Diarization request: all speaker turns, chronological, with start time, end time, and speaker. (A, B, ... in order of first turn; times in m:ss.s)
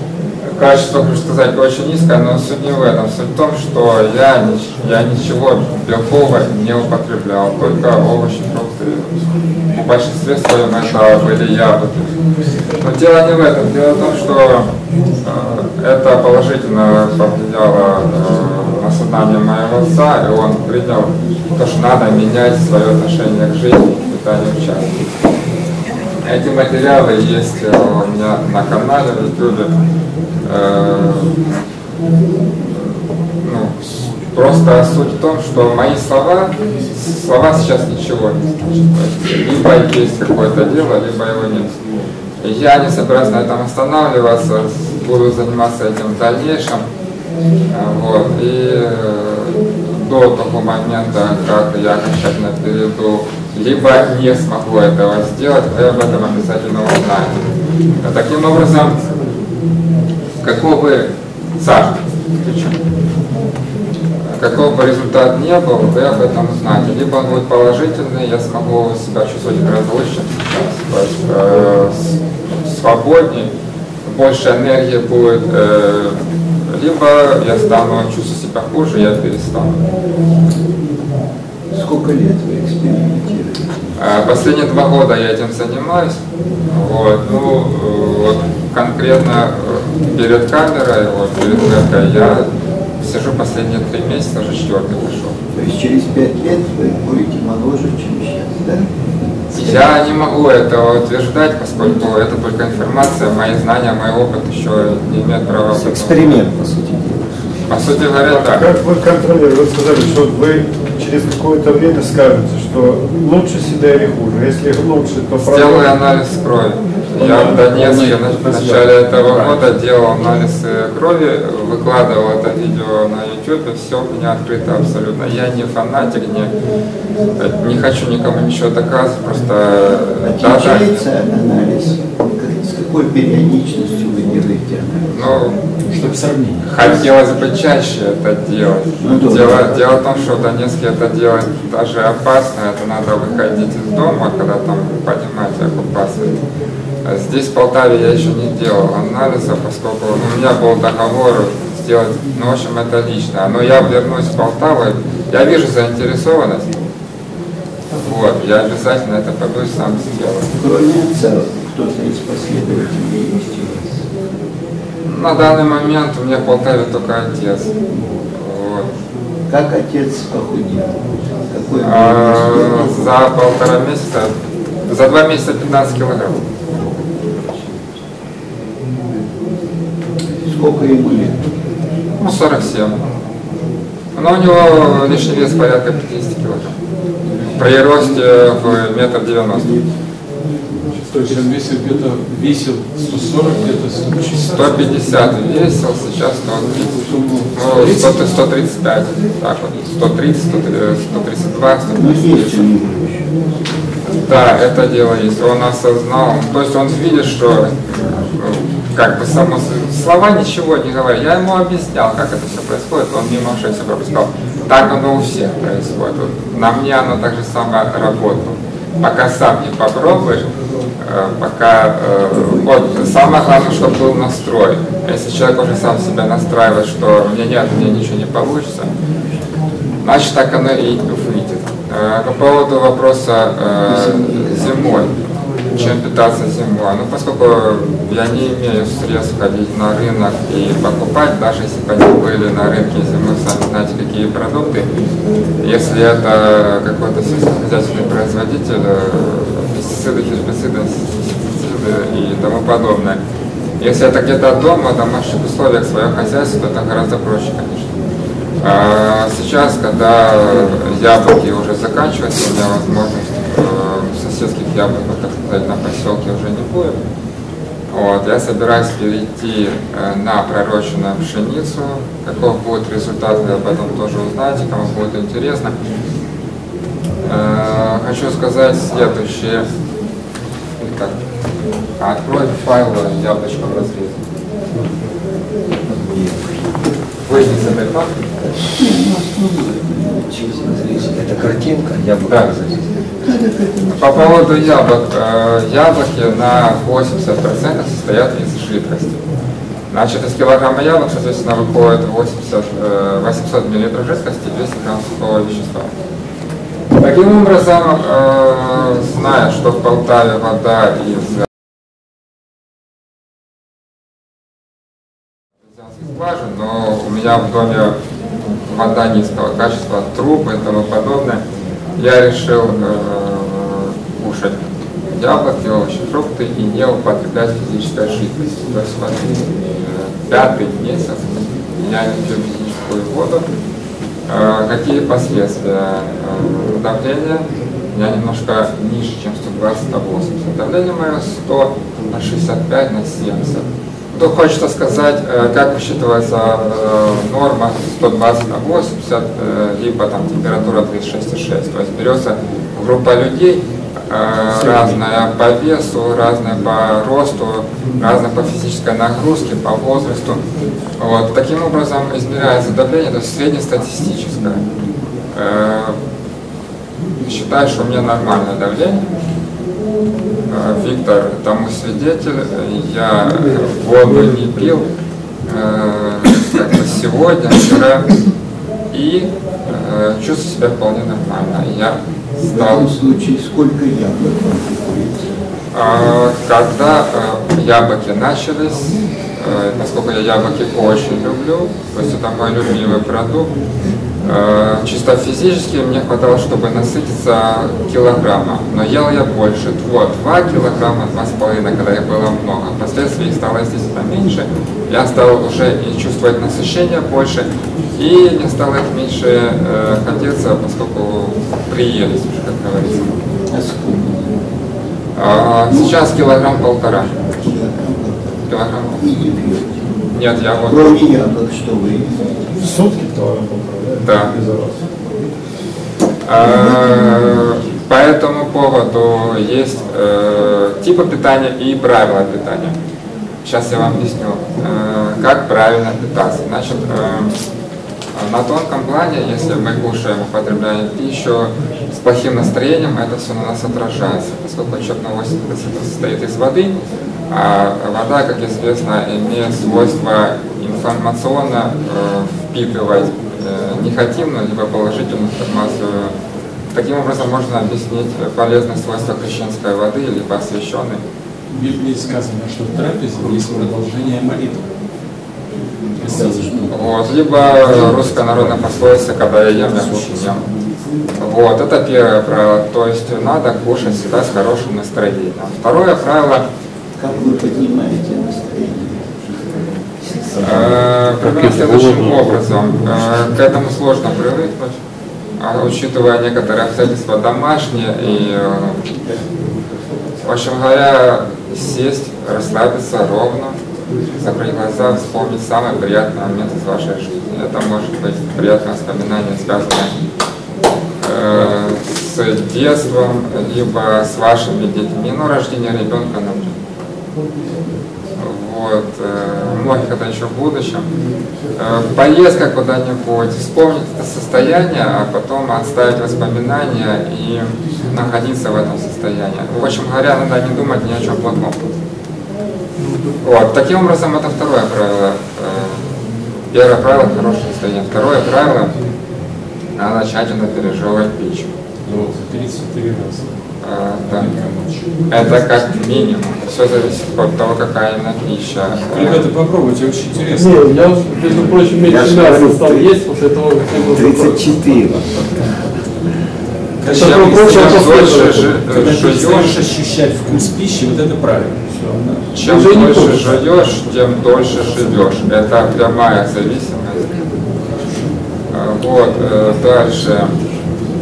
0:00.4-0:09.1 A
0:09.7-0:12.2 A
0:12.8-0:25.0 A
0:26.2-0:29.7 A
0:30.4-0:31.4 A
0:32.8-0:33.8 A
0:34.3-0:41.8 A
0:42.4-0:46.9 A
0:47.7-0:57.4 A
0:58.0-0:59.0 A
1:00.4-1:02.8 A
1:04.3-1:13.5 A
1:14.0-1:19.8 A
1:21.7-1:23.9 B
1:24.0-1:35.4 A
1:35.5-1:39.9 B
1:39.5-1:46.4 A
1:45.7-1:47.3 C
1:47.7-1:48.7 A
1:48.2-1:56.0 D
1:55.4-2:06.6 A
1:57.2-1:58.6 D
1:57.5-1:59.6 E
2:07.4-2:11.1 A
2:10.2-2:15.2 B
2:15.1-2:15.6 A
2:15.9-2:17.0 E
2:16.6-2:26.3 A
2:19.0-2:19.8 B
2:27.0-2:36.8 A
2:37.9-2:40.5 A
2:40.6-2:44.0 B
2:45.0-2:47.7 A
2:47.9-2:48.2 B
2:48.3-2:48.9 A
2:49.5-2:53.2 B
2:51.8-2:54.3 A
2:54.9-2:56.5 A
2:56.7-2:57.2 B
3:00.4-3:01.6 B
3:02.2-3:03.0 A
3:04.2-3:06.8 A
3:07.5-3:09.8 A
3:11.0-3:14.9 E
3:14.5-3:22.6 A
3:22.0-3:23.3 B
3:24.2-3:40.5 A
3:41.0-3:48.9 A
3:50.0-3:55.1 A
3:53.9-3:55.1 B
3:55.7-4:04.9 A
4:05.6-4:13.2 A
4:13.8-4:18.0 A
4:18.6-4:27.0 A
4:27.9-4:35.8 A
4:37.2-4:39.7 A
4:40.8-4:41.2 A
4:42.0-4:44.2 A
4:45.9-4:46.3 B
4:47.3-4:48.3 A
4:48.8-4:51.5 B
4:50.6-4:53.2 C
4:52.3-4:52.5 A
4:53.2-4:54.4 B
4:54.0-4:59.2 A
4:59.9-5:05.9 A
5:06.9-5:11.4 A
5:15.7-5:18.0 A
5:18.6-5:21.4 A
5:22.0-5:33.4 A
5:34.3-6:00.4 A
6:01.0-6:04.6 A
6:05.3-6:06.0 A
6:07.2-6:09.1 A
6:10.5-6:14.9 A
6:15.5-6:18.1 A
6:18.9-6:22.9 A
6:22.5-6:25.3 B
6:25.7-6:33.5 A
6:34.2-6:53.2 A
6:53.5-6:54.5 B
6:55.2-6:57.1 A
6:55.7-6:58.5 B
6:58.5-6:59.0 A
6:59.0-6:59.9 B
7:00.1-7:01.1 A
7:00.6-7:02.4 B
7:04.0-7:04.4 A
7:06.2-7:12.8 A
7:13.4-7:17.3 A
7:18.1-7:26.8 A
7:27.3-7:36.1 A
7:36.7-7:41.0 A
7:41.5-7:44.7 E
7:46.0-7:46.7 E
7:46.0-7:46.7 B
7:46.7-7:50.4 A
7:51.2-7:56.5 A
7:57.0-8:00.9 B
8:00.4-8:04.8 A
8:05.4-8:08.9 A
8:10.2-8:13.6 A
8:14.2-8:19.9 A
8:21.0-8:26.6 A
8:28.2-8:30.9 A
8:31.6-8:41.7 A
8:43.2-8:45.9 A
8:46.5-8:48.7 A
8:49.8-8:51.5 A
8:51.8-8:53.4 E
8:53.6-8:54.3 A
8:54.0-8:55.3 E
8:55.1-8:59.3 A
8:58.9-9:01.5 E
9:00.4-9:04.6 F
9:01.8-9:02.9 C
9:03.9-9:05.5 C
9:06.8-9:12.3 E
9:06.9-9:09.6 A
9:06.9-9:08.4 F
9:12.3-9:17.2 A
9:12.5-9:13.0 F
9:18.5-9:20.3 A